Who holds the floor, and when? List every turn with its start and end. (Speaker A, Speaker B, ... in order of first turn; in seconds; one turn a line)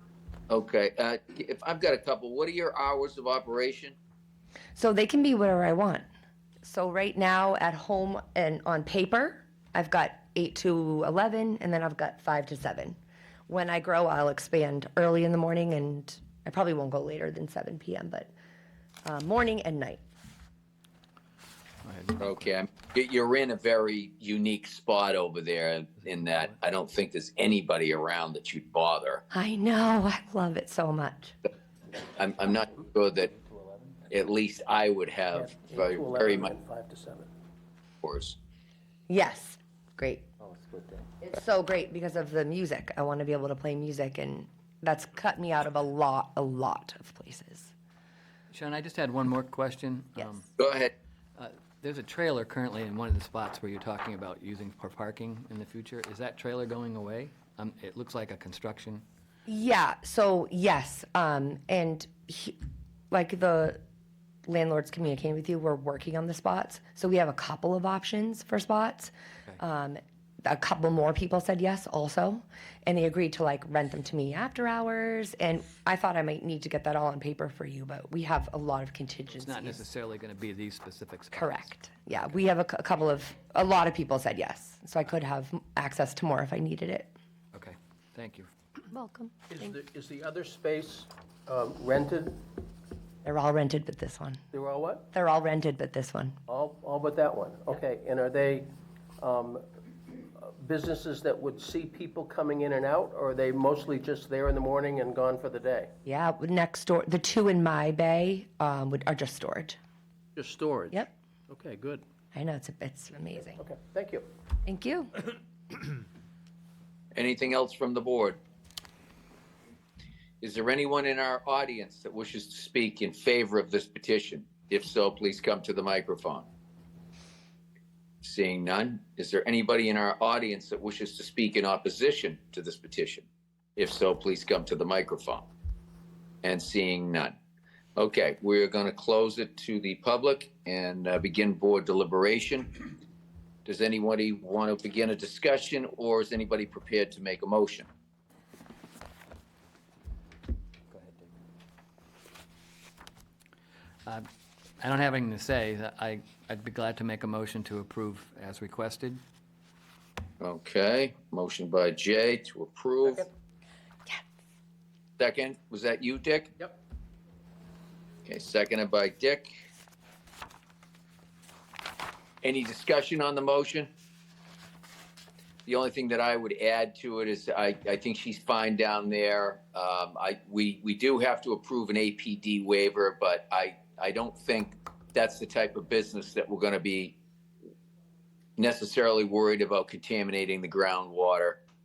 Speaker A: 0.5-4.0
Speaker B: 4.8-6.1
Speaker B: 6.6-13.0
Speaker B: 13.5-18.3
Speaker B: 19.1-20.0
Speaker C: 21.8-22.4
Speaker A: 22.2-29.2
Speaker B: 29.3-31.4
Speaker A: 32.2-33.3
Speaker C: 33.4-33.7
Speaker A: 34.1-36.5
Speaker D: 35.3-37.3
Speaker A: 38.0-38.4
Speaker B: 39.1-40.3
Speaker D: 40.4-41.0
Speaker B: 41.3-47.7
Speaker C: 48.5-50.5
Speaker A: 50.6-50.9
Speaker C: 51.4-59.0
Speaker B: 59.5-62.6
Speaker B: 63.1-63.8
Speaker B: 64.5-79.8
Speaker C: 79.3-81.7
Speaker B: 81.3-87.1
Speaker C: 87.5-88.5
Speaker B: 88.9-89.8
Speaker D: 89.5-92.4
Speaker B: 93.2-94.4
Speaker D: 94.5-95.1
Speaker B: 95.1-96.4
Speaker D: 96.5-99.6
Speaker D: 100.4-105.9
Speaker B: 106.1-109.8
Speaker D: 110.4-112.0
Speaker B: 112.3-113.6
Speaker D: 113.6-114.3
Speaker B: 114.7-115.2
Speaker A: 117.2-118.4
Speaker A: 120.4-126.5
Speaker A: 128.2-135.4
Speaker A: 136.4-137.4
Speaker A: 138.0-142.9
Speaker A: 143.7-147.9
Speaker C: 150.9-151.3
Speaker C: 154.8-159.2
Speaker A: 160.4-163.3
Speaker A: 165.2-166.5
Speaker A: 168.3-169.5
Speaker A: 172.4-173.9
Speaker A: 175.7-187.2
Speaker A: 188.6-191.6